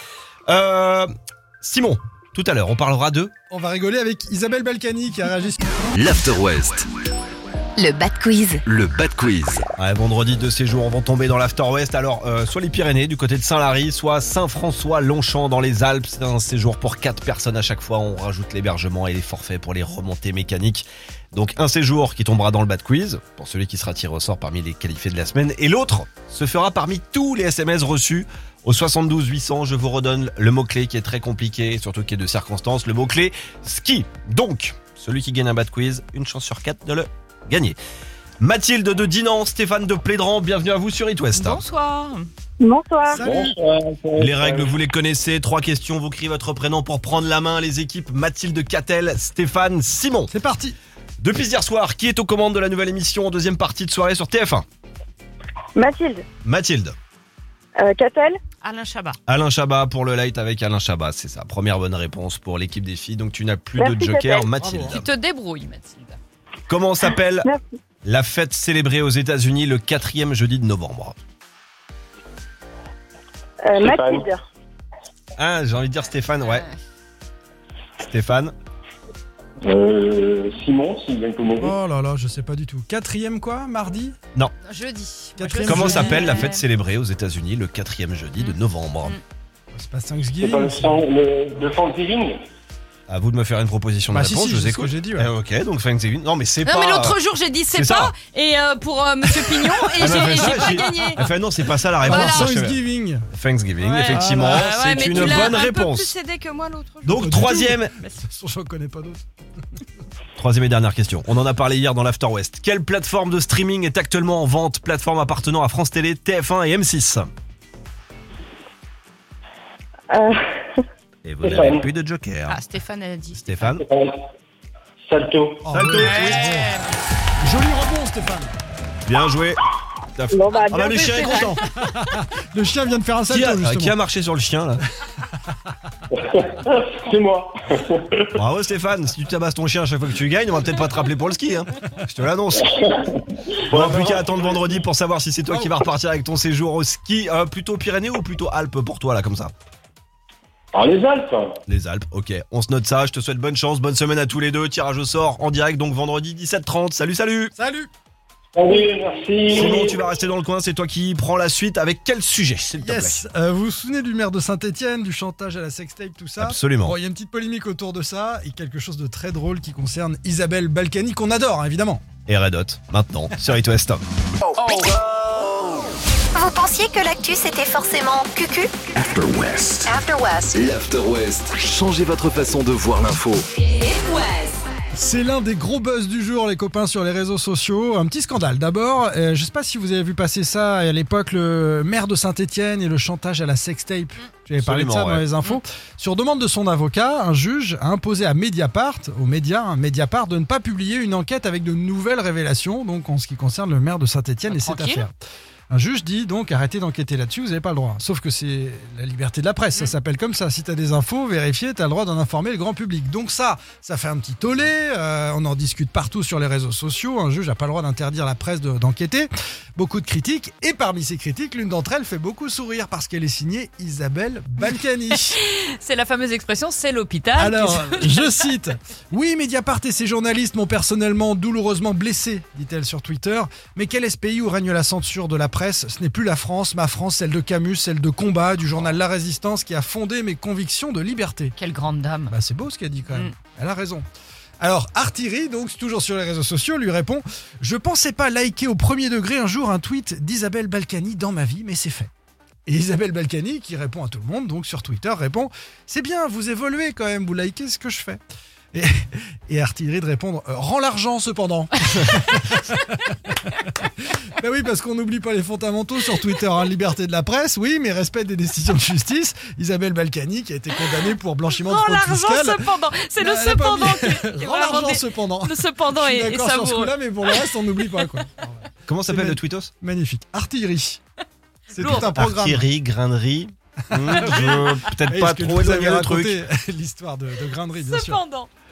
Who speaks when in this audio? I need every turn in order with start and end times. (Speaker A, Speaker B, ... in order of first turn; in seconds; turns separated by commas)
Speaker A: 0.5-1.1, Speaker A: 1.6-3.3, Speaker B: 3.5-6.0, Speaker C: 6.0-6.9, Speaker D: 7.8-8.6, Speaker C: 8.7-9.6, Speaker A: 9.8-37.8, Speaker A: 38.4-41.6, Speaker E: 41.3-42.3, Speaker F: 42.6-43.2, Speaker B: 43.1-43.6, Speaker G: 43.1-44.7, Speaker A: 44.2-50.3, Speaker B: 50.3-50.8, Speaker A: 51.2-54.7, Speaker F: 55.8-56.2, Speaker A: 56.4-57.0, Speaker F: 57.8-58.4, Speaker E: 58.6-59.2, Speaker A: 59.3-65.1, Speaker F: 63.8-64.5, Speaker B: 64.6-65.0, Speaker E: 64.9-66.2, Speaker A: 66.7-67.5, Speaker A: 68.0-71.2, Speaker F: 73.7-74.4, Speaker G: 73.8-74.3, Speaker A: 75.4-76.7, Speaker E: 76.4-76.8, Speaker A: 78.0-78.5, Speaker G: 79.6-81.8, Speaker B: 81.6-84.2, Speaker E: 84.6-86.6, Speaker B: 85.4-86.4, Speaker A: 85.6-89.2, Speaker E: 88.4-89.2, Speaker B: 89.7-91.1, Speaker G: 90.4-92.4, Speaker A: 93.1-97.2, Speaker B: 94.1-95.3, Speaker E: 96.6-101.3, Speaker A: 97.7-98.1, Speaker A: 100.0-106.2, Speaker B: 100.1-100.6, Speaker E: 102.0-102.6, Speaker B: 102.0-103.3, Speaker E: 103.8-108.2, Speaker B: 104.1-105.5, Speaker A: 107.0-107.9, Speaker B: 107.1-109.2, Speaker A: 110.4-117.3, Speaker F: 120.1-120.8, Speaker A: 121.2-122.6, Speaker G: 121.4-121.8, Speaker E: 122.5-123.7, Speaker A: 123.3-123.8, Speaker G: 123.8-124.2, Speaker G: 125.1-125.7, Speaker B: 125.6-126.7, Speaker A: 125.7-126.5, Speaker E: 126.0-126.9, Speaker B: 127.4-128.5, Speaker A: 129.1-129.6, Speaker A: 130.2-131.5, Speaker F: 130.3-131.6, Speaker E: 130.7-131.6, Speaker B: 131.2-134.0, Speaker A: 133.3-134.8, Speaker G: 136.1-138.3, Speaker A: 138.4-142.7, Speaker G: 142.8-144.8, Speaker A: 143.7-149.5, Speaker G: 150.7-151.6, Speaker A: 151.7-157.5, Speaker B: 157.6-157.9, Speaker G: 158.6-160.0, Speaker A: 159.5-163.2, Speaker B: 162.8-172.0, Speaker A: 166.4-167.0, Speaker A: 172.3-174.1, Speaker D: 174.7-174.9, Speaker D: 176.3-178.7, Speaker C: 179.0-179.9, Speaker D: 179.8-180.8, Speaker C: 180.5-183.4, Speaker D: 183.8-184.4, Speaker B: 184.9-205.1, Speaker A: 194.6-195.3, Speaker E: 204.5-205.0, Speaker B: 205.7-225.4, Speaker E: 225.1-228.4, Speaker B: 227.4-241.6, Speaker E: 241.6-242.3, Speaker B: 242.3-244.1, Speaker B: 244.6-252.1, Speaker B: 252.7-258.2, Speaker B: 258.7-272.6, Speaker E: 271.5-277.8, Speaker B: 273.2-281.0, Speaker A: 278.9-279.7, Speaker E: 281.7-282.1, Speaker B: 281.7-282.7, Speaker A: 281.9-286.4, Speaker B: 283.9-288.2, Speaker E: 284.2-284.7, Speaker E: 287.7-288.5